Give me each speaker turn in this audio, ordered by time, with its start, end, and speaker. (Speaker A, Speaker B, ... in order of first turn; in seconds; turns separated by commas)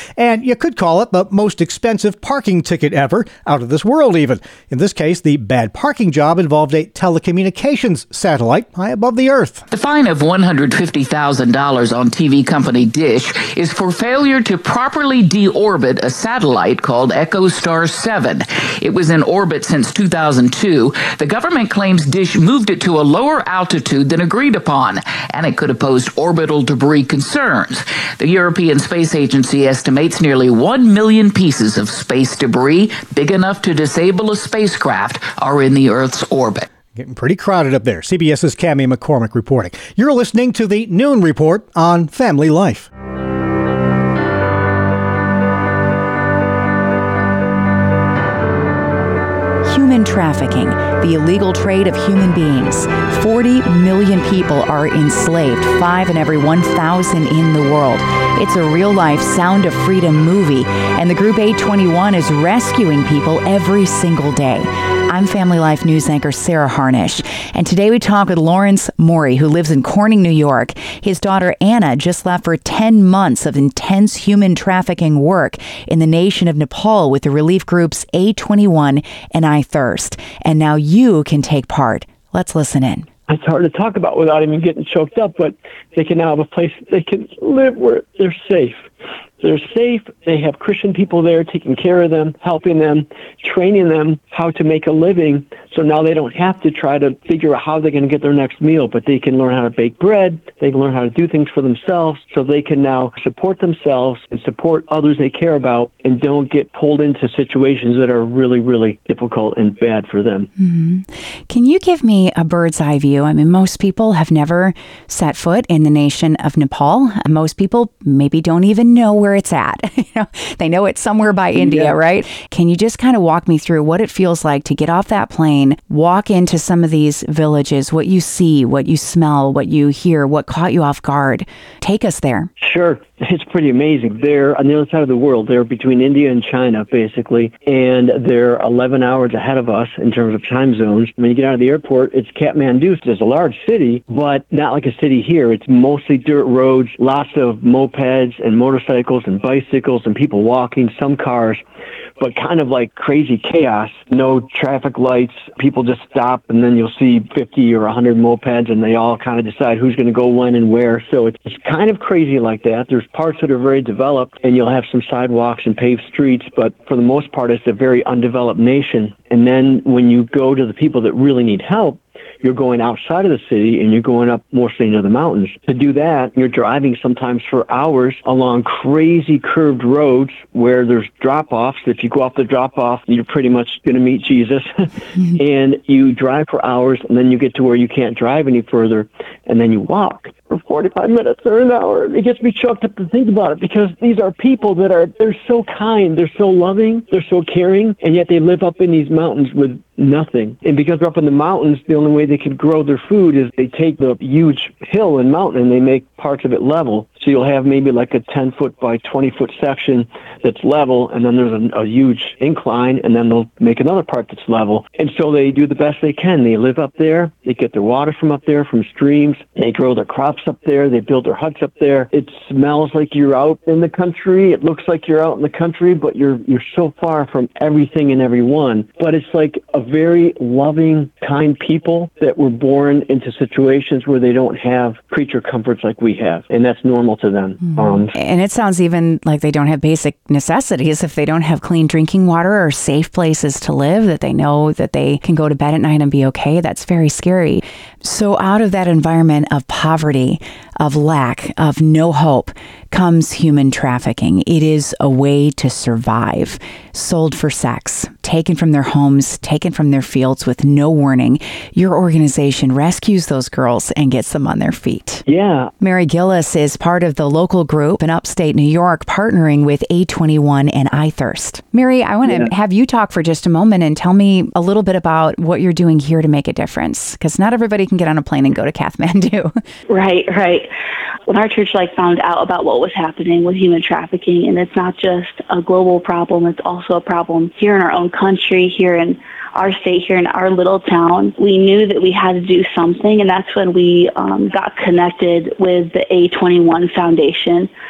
Speaker A: 0.2-9.6, Speaker B: 9.7-36.7, Speaker A: 37.0-42.9, Speaker C: 49.6-83.1, Speaker D: 83.3-88.9, Speaker D: 89.4-110.5, Speaker C: 110.6-132.5, Speaker D: 121.5-122.0, Speaker D: 132.6-151.6, Speaker D: 152.2-184.7, Speaker D: 185.4-238.1, Speaker C: 237.6-265.2, Speaker D: 265.3-265.7, Speaker C: 265.8-279.6, Speaker E: 279.9-280.7, Speaker E: 281.3-297.7